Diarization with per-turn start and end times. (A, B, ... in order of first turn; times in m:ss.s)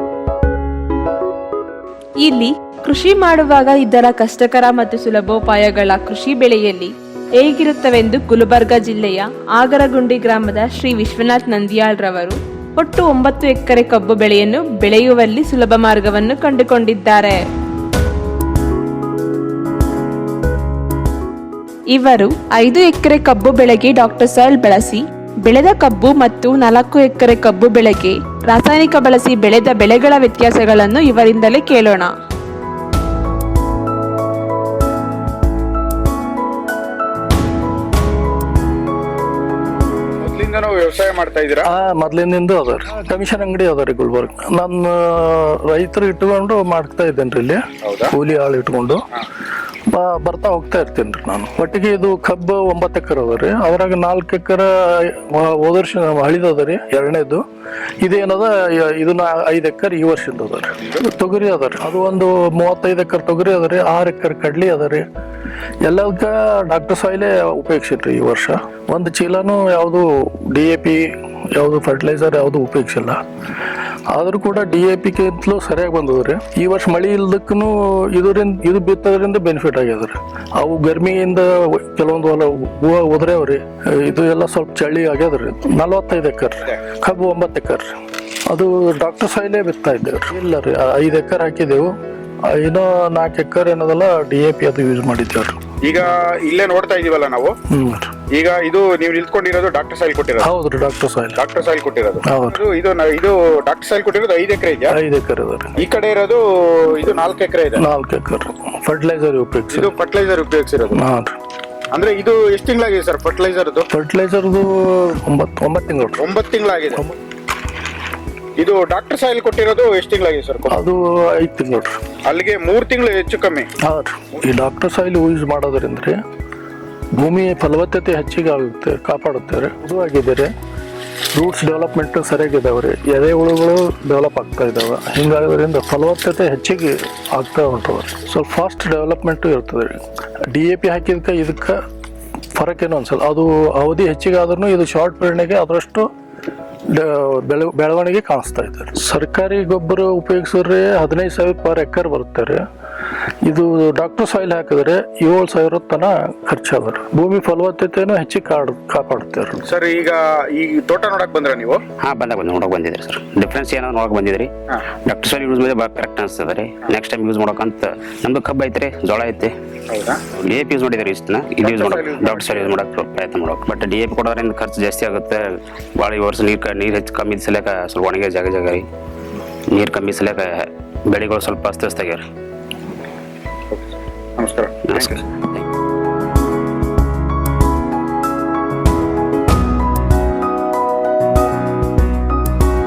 0:02.2-0:17.4 A
0:21.9-0:32.1 A
0:40.2-0:41.7 B
0:41.7-0:49.1 C
0:47.8-0:48.1 B
0:49.9-0:57.4 C
0:58.0-1:05.0 C
1:05.8-1:13.2 C
1:14.1-1:27.9 C
1:28.5-1:31.9 C
1:32.4-1:35.6 C
1:35.8-1:37.5 B
1:37.7-1:38.1 C
1:38.3-1:40.5 B
1:40.4-1:41.4 C
1:41.4-1:44.9 B
1:42.2-1:42.6 C
1:44.9-1:45.8 C
1:45.8-1:47.8 B
1:47.8-1:49.9 C
1:49.7-1:51.0 B
1:50.9-1:51.4 C
1:51.9-1:53.9 B
1:53.9-1:56.3 C
1:56.2-1:57.0 B
1:58.6-2:00.8 B
2:00.7-2:01.9 C
2:02.3-2:03.7 B
2:03.8-2:06.2 C
2:07.2-2:10.5 C
2:11.3-2:20.0 C
2:20.5-2:21.8 C
2:22.5-2:26.1 C
2:26.9-2:32.6 C
2:33.4-2:39.6 C
2:39.6-2:41.8 B
2:42.0-2:44.5 D
2:45.0-2:49.5 D
2:49.9-2:50.2 B
2:50.4-2:58.8 D
2:51.6-2:52.8 B
2:59.7-3:02.2 D
3:03.7-3:05.2 B
3:04.9-3:05.2 D